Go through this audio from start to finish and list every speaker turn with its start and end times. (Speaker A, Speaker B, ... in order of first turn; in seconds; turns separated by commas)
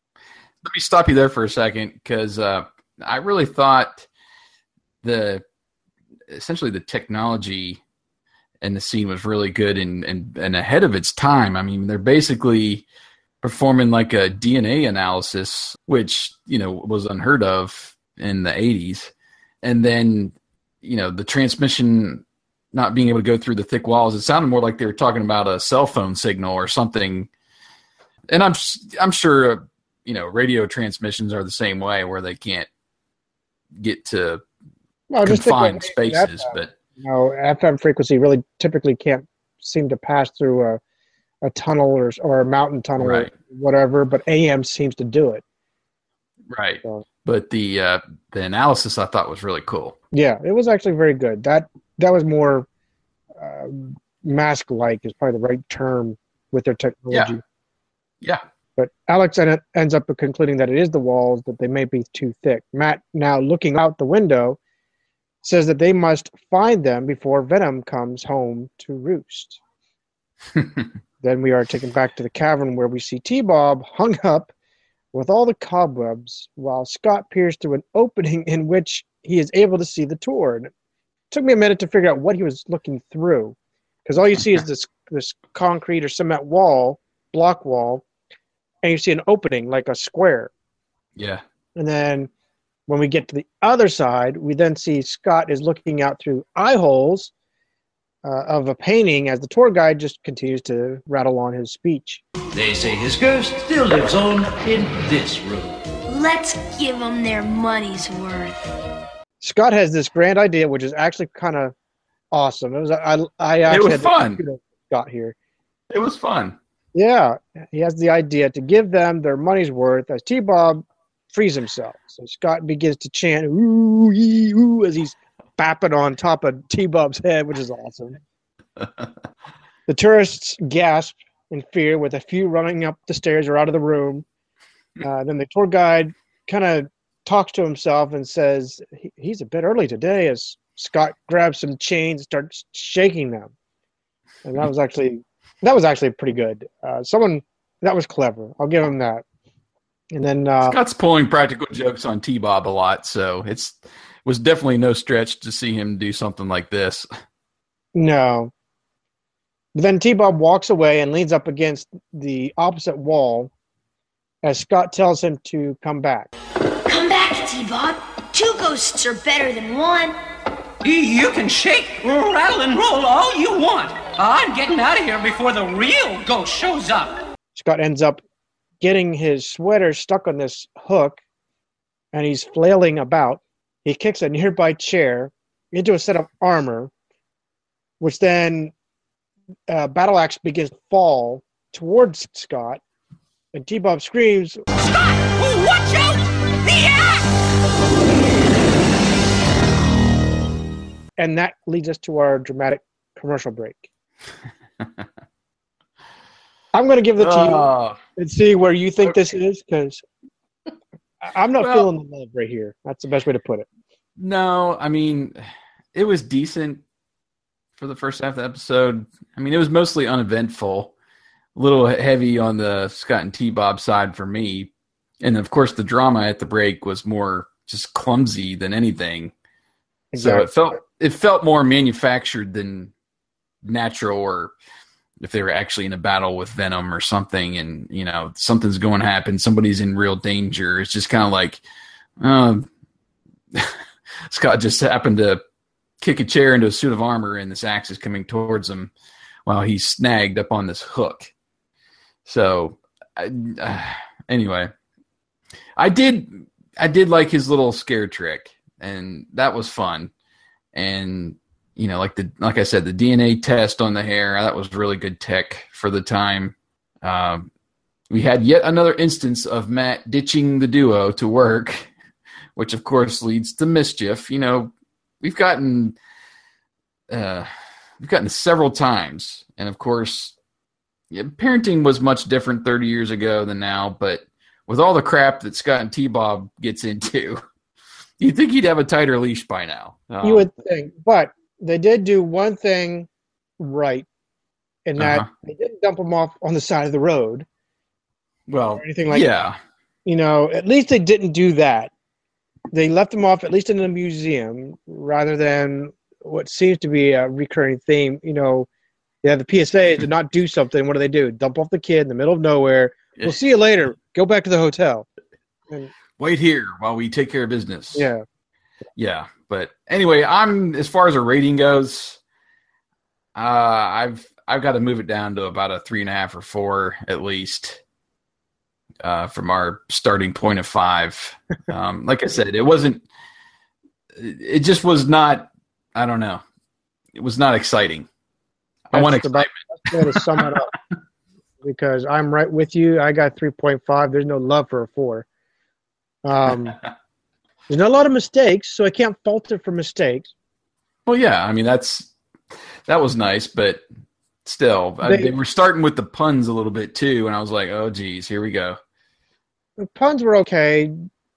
Speaker A: 0.6-4.1, Speaker A: 5.0-5.5, Speaker A: 6.3-7.8, Speaker A: 8.6-12.8, Speaker A: 13.4-19.1, Speaker A: 19.6-27.3, Speaker A: 28.3-32.7, Speaker A: 33.8-34.4, Speaker B: 35.1-40.8, Speaker A: 35.2-36.7, Speaker B: 41.4-45.4, Speaker A: 43.0-43.3, Speaker A: 46.5-50.0, Speaker B: 50.1-52.7, Speaker B: 53.4-57.4, Speaker A: 57.1-57.4, Speaker B: 58.8-64.6, Speaker B: 65.4-69.6, Speaker B: 71.2-74.5, Speaker B: 75.1-80.7, Speaker B: 81.3-88.0, Speaker B: 88.8-90.5, Speaker A: 91.2-91.4, Speaker B: 91.8-92.3, Speaker B: 92.9-97.3, Speaker B: 98.2-102.2, Speaker C: 102.5-105.7, Speaker D: 106.1-108.6, Speaker B: 109.4-111.7, Speaker B: 112.3-115.3, Speaker A: 113.7-114.4, Speaker A: 115.9-116.6, Speaker B: 117.0-128.2, Speaker B: 129.9-134.2, Speaker B: 135.0-143.5, Speaker B: 144.4-149.2, Speaker B: 150.1-150.8, Speaker A: 150.6-157.1, Speaker B: 157.9-158.5, Speaker B: 159.8-163.5, Speaker B: 164.4-166.3, Speaker D: 166.9-170.2, Speaker E: 170.8-177.2, Speaker B: 177.6-178.2, Speaker B: 178.8-181.2, Speaker B: 182.1-186.9, Speaker B: 188.0-188.7, Speaker B: 189.7-192.8, Speaker B: 193.5-194.6, Speaker E: 194.8-197.2, Speaker B: 201.2-203.8, Speaker B: 206.7-210.0, Speaker A: 207.2-208.0, Speaker B: 211.2-213.7, Speaker A: 211.6-211.9, Speaker A: 214.2-215.4, Speaker A: 215.9-216.8, Speaker A: 217.8-220.9, Speaker A: 221.6-229.3, Speaker B: 230.1-230.5, Speaker A: 230.2-232.9, Speaker A: 233.6-234.5, Speaker A: 235.2-241.6, Speaker A: 242.2-242.7, Speaker A: 243.5-245.4, Speaker A: 246.0-248.9, Speaker A: 249.5-251.3, Speaker A: 252.3-254.7, Speaker A: 255.8-260.1, Speaker A: 260.7-267.5, Speaker A: 268.1-271.9, Speaker A: 272.6-276.0, Speaker A: 277.1-280.4, Speaker A: 281.1-287.4, Speaker A: 288.2-290.5, Speaker B: 290.2-293.1, Speaker B: 293.6-294.1, Speaker B: 294.9-297.5, Speaker A: 295.0-295.3, Speaker A: 298.5-299.6, Speaker B: 298.8-299.3, Speaker B: 300.1-301.9, Speaker B: 302.7-308.7, Speaker B: 309.2-315.1, Speaker A: 316.2-318.1, Speaker B: 317.9-318.2, Speaker A: 319.0-322.2, Speaker A: 323.4-327.8, Speaker A: 329.0-333.1, Speaker A: 334.1-336.4, Speaker A: 337.1-338.1, Speaker A: 338.9-340.5, Speaker B: 338.9-340.7, Speaker B: 341.6-345.3, Speaker B: 346.2-346.8, Speaker B: 347.7-350.3, Speaker A: 351.1-352.1, Speaker A: 352.9-353.8, Speaker A: 354.4-358.8, Speaker B: 355.0-355.3, Speaker B: 359.8-360.9